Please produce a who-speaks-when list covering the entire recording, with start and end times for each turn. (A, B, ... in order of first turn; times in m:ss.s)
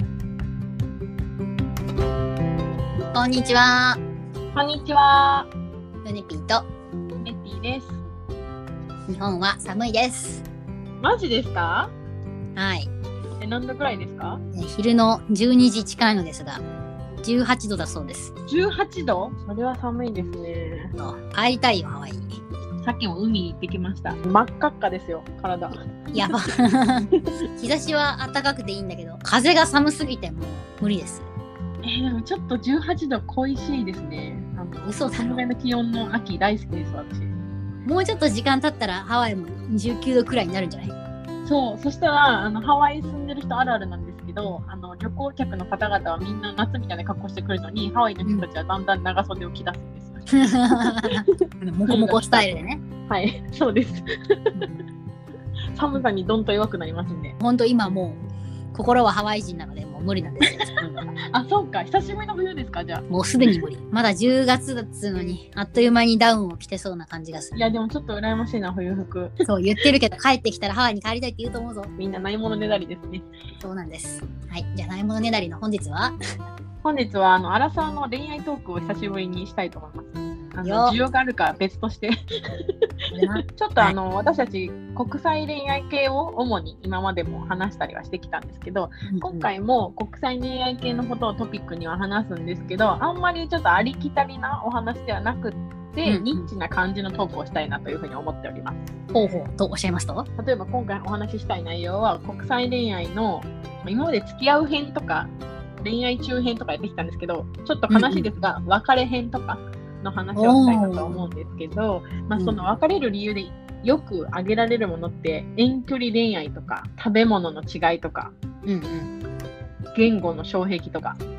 0:03.1-0:04.0 A
0:04.6-0:05.5 B
0:06.0-0:06.6 A
0:07.2-0:08.0 B
0:09.1-0:10.4 A
0:11.0-0:11.9 B
0:12.6-0:12.9 A
0:13.4-0:14.4 B
0:14.5-0:16.6 A
0:17.2-0:18.3 A
0:18.5-0:21.0 B
0:21.0-0:22.4 A
0:22.8-0:26.4 B
0:26.1-0:31.3 A
0:31.8-0:37.4 B
0:34.8-0:35.4 A
0:37.8-0:40.9 A
0:41.4-0:51.0 B
0:50.3-0:52.8 A
0:51.9-0:54.7 B
0:55.8-0:57.4 B
0:57.4-0:58.2 A
0:58.7-1:01.1 A
1:01.3-1:03.6 B
1:03.1-1:07.5 A
1:07.5-1:09.4 B
1:09.4-1:11.9 A
1:12.0-1:13.3 B
1:13.6-1:16.2 A
1:16.8-1:22.1 B
1:20.6-1:21.0 A
1:23.1-1:24.0 A
1:23.3-1:38.8 B
1:29.1-1:29.5 A
1:36.0-1:36.5 A
1:39.1-1:40.3 A
1:40.4-1:58.4 B
1:47.9-1:48.3 A
1:50.4-1:51.1 A
1:58.7-1:59.1 A
1:59.9-2:01.2 B